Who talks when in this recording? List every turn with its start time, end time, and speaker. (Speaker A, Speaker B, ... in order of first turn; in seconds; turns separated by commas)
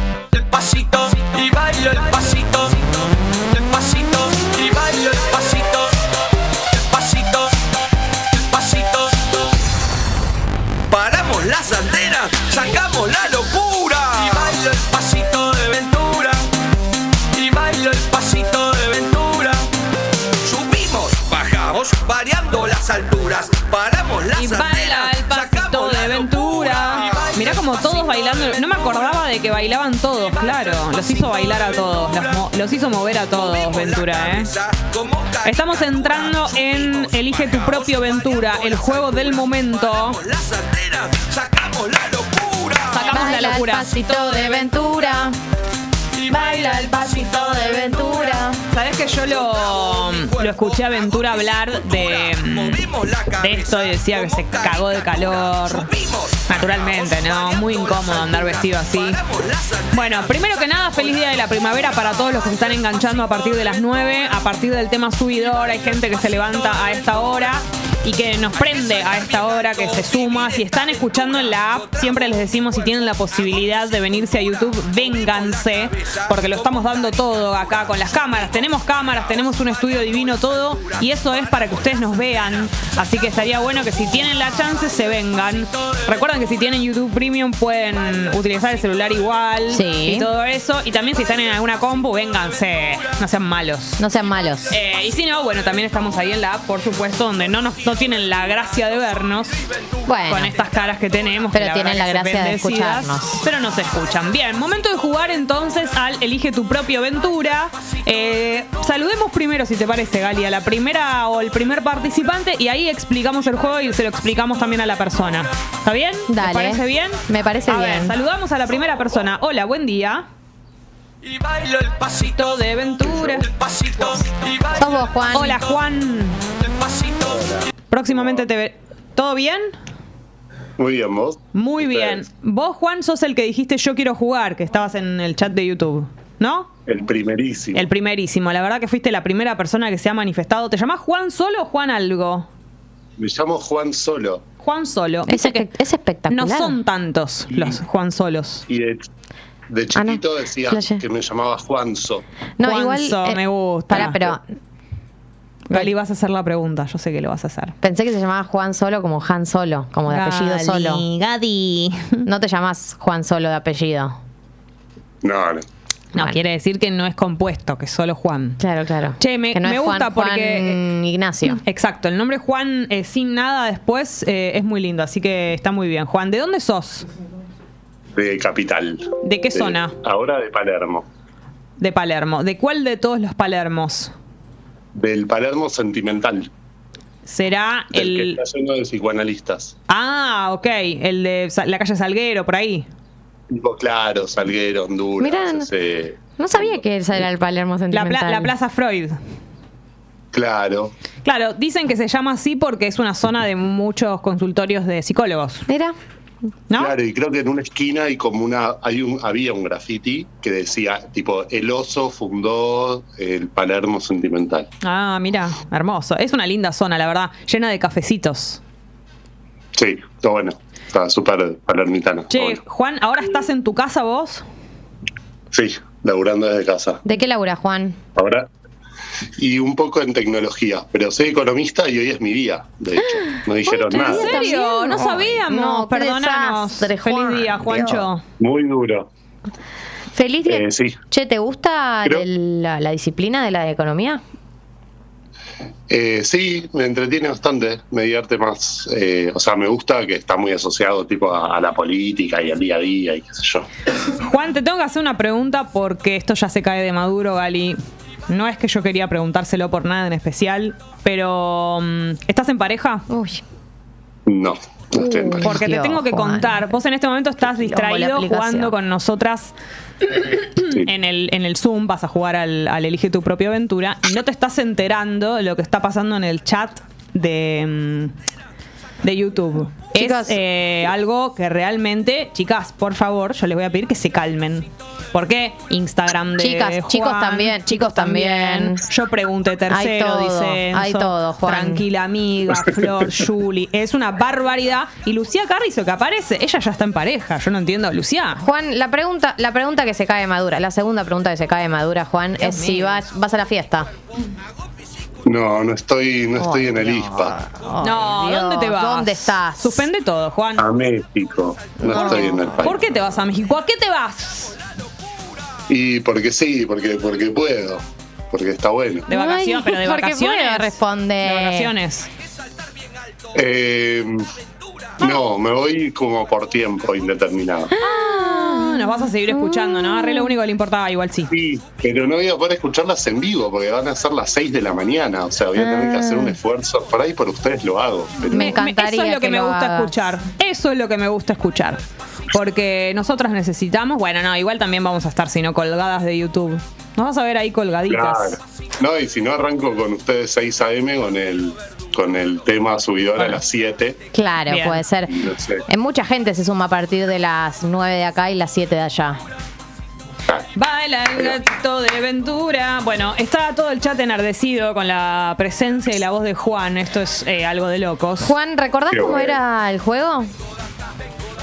Speaker A: 0.3-2.8, Speaker A: 3.5-5.9, Speaker A: 6.8-7.5, Speaker A: 8.3-9.2, Speaker A: 10.9-16.5, Speaker A: 17.3-19.7, Speaker A: 20.4-27.3, Speaker B: 24.3-34.5, Speaker A: 33.5-35.5, Speaker B: 35.4-40.2, Speaker A: 40.2-43.0, Speaker B: 42.8-44.0, Speaker C: 43.0-45.4, Speaker C: 46.3-48.6, Speaker B: 48.7-55.9, Speaker A: 52.7-53.5, Speaker A: 55.9-56.5, Speaker B: 56.5-59.2, Speaker A: 59.2-59.8, Speaker B: 59.9-94.0, Speaker C: 89.7-90.3, Speaker C: 94.0-94.8, Speaker B: 94.7-99.5, Speaker C: 100.1-100.5, Speaker B: 100.3-120.3, Speaker C: 101.5-103.4, Speaker C: 116.3-118.1, Speaker A: 121.2-122.3, Speaker B: 122.2-123.5, Speaker A: 123.5-124.8, Speaker C: 124.7-125.6, Speaker B: 125.3-126.4, Speaker A: 126.6-127.3, Speaker B: 127.9-129.7, Speaker D: 130.8-132.2, Speaker B: 131.5-136.7, Speaker D: 136.8-137.9, Speaker B: 137.7-142.5, Speaker D: 143.2-144.4, Speaker B: 144.6-145.7, Speaker C: 145.3-146.8, Speaker B: 146.3-148.6, Speaker D: 148.7-149.1, Speaker D: 149.7-152.2, Speaker C: 149.9-151.0, Speaker C: 152.6-154.4, Speaker B: 152.6-154.2, Speaker D: 153.9-154.4, Speaker B: 155.7-157.7, Speaker C: 157.8-161.0, Speaker B: 160.1-162.2, Speaker C: 162.2-164.2, Speaker D: 165.2-165.7, Speaker B: 166.1-168.6, Speaker C: 168.6-171.6, Speaker B: 169.2-170.8, Speaker B: 171.5-177.1, Speaker D: 178.1-181.1, Speaker B: 179.2-179.9, Speaker B: 181.8-184.1, Speaker D: 184.9-186.5, Speaker B: 187.2-188.4, Speaker D: 187.9-189.7, Speaker B: 189.9-192.9, Speaker D: 193.5-196.8, Speaker C: 195.2-195.7, Speaker C: 196.3-198.5, Speaker B: 197.9-199.2, Speaker D: 200.3-200.9, Speaker B: 201.2-205.7, Speaker C: 205.7-205.9, Speaker B: 206.7-206.9, Speaker D: 206.7-214.7, Speaker B: 214.8-218.6, Speaker D: 219.8-222.6, Speaker B: 222.3-224.4, Speaker D: 225.5-227.0, Speaker C: 227.0-228.0, Speaker D: 228.2-228.5, Speaker D: 229.4-234.4, Speaker C: 233.0-238.0, Speaker B: 234.0-238.2, Speaker D: 237.8-239.1, Speaker C: 240.1-244.2, Speaker D: 240.4-241.0, Speaker D: 245.9-253.7, Speaker B: 254.2-263.1, Speaker C: 263.1-263.4, Speaker D: 264.3-265.5, Speaker C: 265.0-266.7, Speaker B: 265.4-278.1, Speaker C: 267.4-268.7, Speaker B: 279.0-298.4, Speaker C: 279.9-280.4, Speaker C: 286.4-288.8, Speaker C: 289.7-291.8, Speaker C: 298.4-303.9, Speaker B: 302.4-303.0, Speaker D: 305.2-307.4, Speaker C: 306.4-309.9, Speaker B: 307.8-310.6, Speaker D: 310.6-312.8, Speaker C: 311.8-312.4, Speaker B: 311.9-314.6, Speaker D: 315.7-319.1, Speaker B: 319.1-322.1, Speaker C: 319.1-321.7, Speaker D: 323.3-324.2, Speaker D: 325.0-327.8, Speaker C: 327.8-330.4, Speaker B: 327.8-331.3, Speaker D: 331.3-338.5, Speaker C: 335.6-336.4, Speaker B: 338.3-348.4, Speaker C: 338.3-340.0, Speaker D: 347.9-354.0, Speaker C: 354.1-355.1, Speaker B: 354.5-354.9, Speaker D: 355.1-355.6, Speaker C: 355.7-359.2, Speaker B: 360.6-368.3, Speaker C: 368.2-370.3, Speaker D: 368.9-369.4